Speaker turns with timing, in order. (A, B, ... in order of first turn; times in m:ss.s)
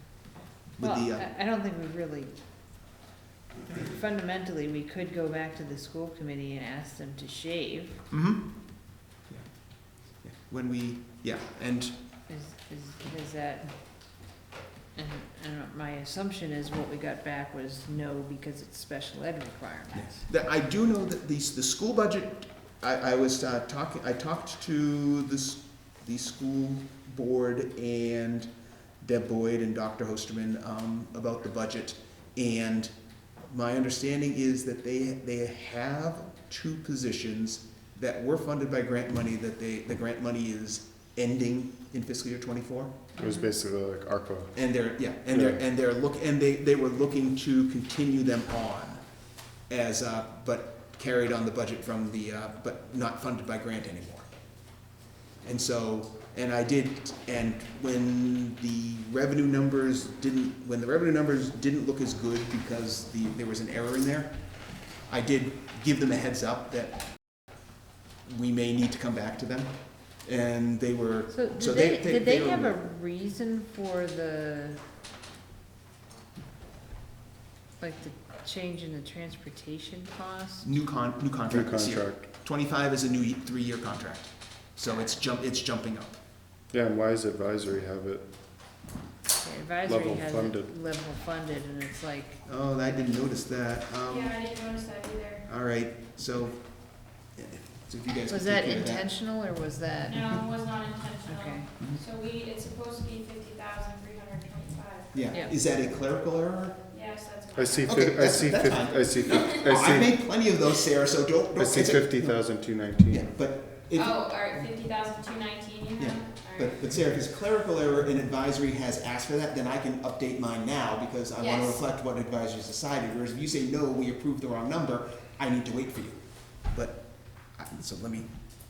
0:00.8-0:01.3 A
0:00.8-0:02.9 B
0:03.7-0:08.0 B
0:08.1-0:12.0 A
0:12.3-0:14.3 B
0:15.0-0:20.3 B
0:19.9-0:32.9 A
0:33.5-0:43.0 A
0:43.2-0:43.5 B
0:43.2-0:44.6 C
0:44.6-0:54.3 A
0:45.3-0:45.6 C
0:55.4-1:04.4 A
1:05.0-1:07.1 A
1:08.2-1:12.8 A
1:11.3-1:14.8 B
1:17.8-1:20.8 B
1:20.6-1:26.2 A
1:21.5-1:22.3 C
1:26.7-1:28.3 C
1:29.4-1:32.4 B
1:29.8-1:30.7 C
1:32.5-1:34.4 A
1:34.1-1:35.5 D
1:35.5-1:39.1 A
1:38.3-1:40.2 B
1:40.1-1:45.4 D
1:41.3-1:41.7 B
1:45.1-1:46.8 A
1:46.9-1:48.0 D
1:47.6-1:50.2 C
1:47.9-1:52.4 A
1:51.6-1:53.3 C
1:53.1-1:54.2 A
1:53.9-1:56.8 D
1:56.0-2:08.3 A
2:01.4-2:01.8 D